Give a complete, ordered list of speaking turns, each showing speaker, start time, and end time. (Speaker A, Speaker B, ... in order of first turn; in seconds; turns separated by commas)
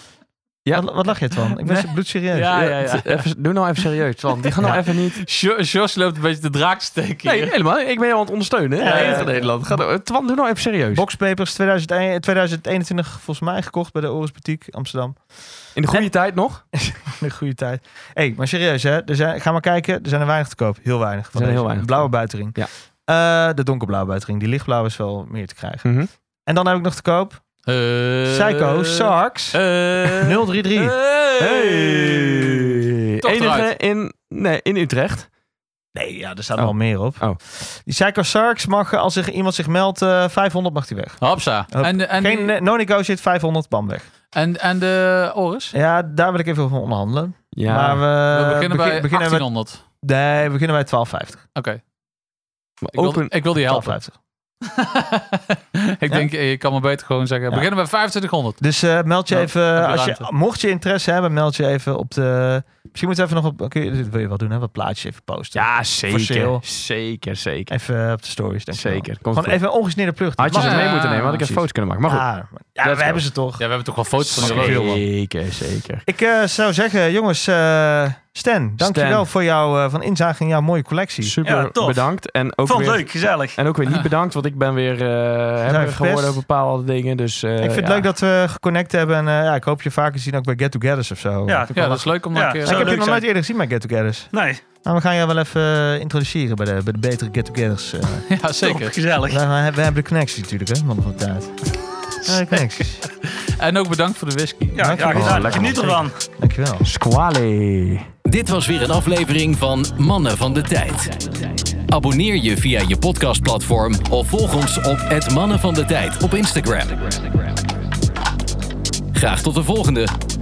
Speaker A: 0.7-1.0, Speaker B: 0.7-2.6, Speaker C: 1.6-3.3, Speaker A: 2.5-5.2, Speaker C: 5.2-7.5, Speaker A: 7.2-11.0, Speaker B: 8.8-9.8, Speaker C: 8.8-9.3, Speaker B: 10.9-16.1, Speaker A: 15.7-16.6, Speaker B: 16.7-27.4, Speaker A: 21.3-22.7, Speaker A: 25.8-26.1, Speaker C: 27.6-33.7, Speaker B: 28.3-29.6, Speaker B: 30.1-31.0, Speaker A: 31.4-35.3, Speaker B: 35.9-44.1, Speaker A: 36.6-37.4, Speaker C: 41.2-42.5, Speaker C: 44.3-45.7, Speaker B: 45.7-49.5, Speaker A: 47.5-48.0, Speaker C: 48.3-49.8, Speaker B: 50.0-51.4, Speaker C: 51.5-51.8, Speaker A: 52.8-53.3, Speaker C: 52.9-54.0, Speaker B: 53.5-54.2, Speaker C: 54.7-58.6, Speaker B: 58.6-66.6, Speaker C: 59.3-60.3, Speaker A: 65.5-67.7, Speaker B: 67.7-71.3, Speaker A: 68.7-69.6, Speaker A: 70.4-72.3, Speaker C: 70.5-71.6, Speaker B: 72.0-75.1, Speaker A: 72.8-73.3, Speaker C: 73.6-74.9, Speaker A: 74.3-76.0, Speaker B: 76.0-81.4, Speaker A: 78.8-79.2, Speaker A: 81.2-88.1, Speaker D: 81.4-82.1, Speaker D: 82.6-83.6, Speaker B: 85.6-86.4, Speaker B: 87.6-94.3, Speaker D: 91.5-91.8, Speaker C: 91.7-92.9, Speaker D: 92.3-93.3, Speaker D: 94.3-94.6, Speaker B: 94.8-98.2, Speaker C: 98.3-99.0, Speaker D: 98.6-99.4, Speaker B: 99.3-101.6, Speaker B: 102.2-103.0, Speaker C: 102.2-104.8, Speaker D: 104.7-106.2, Speaker B: 104.8-106.9, Speaker A: 105.1-106.0, Speaker A: 106.8-108.1, Speaker E: 108.2-111.3, Speaker E: 111.9-117.5, Speaker E: 119.1-120.1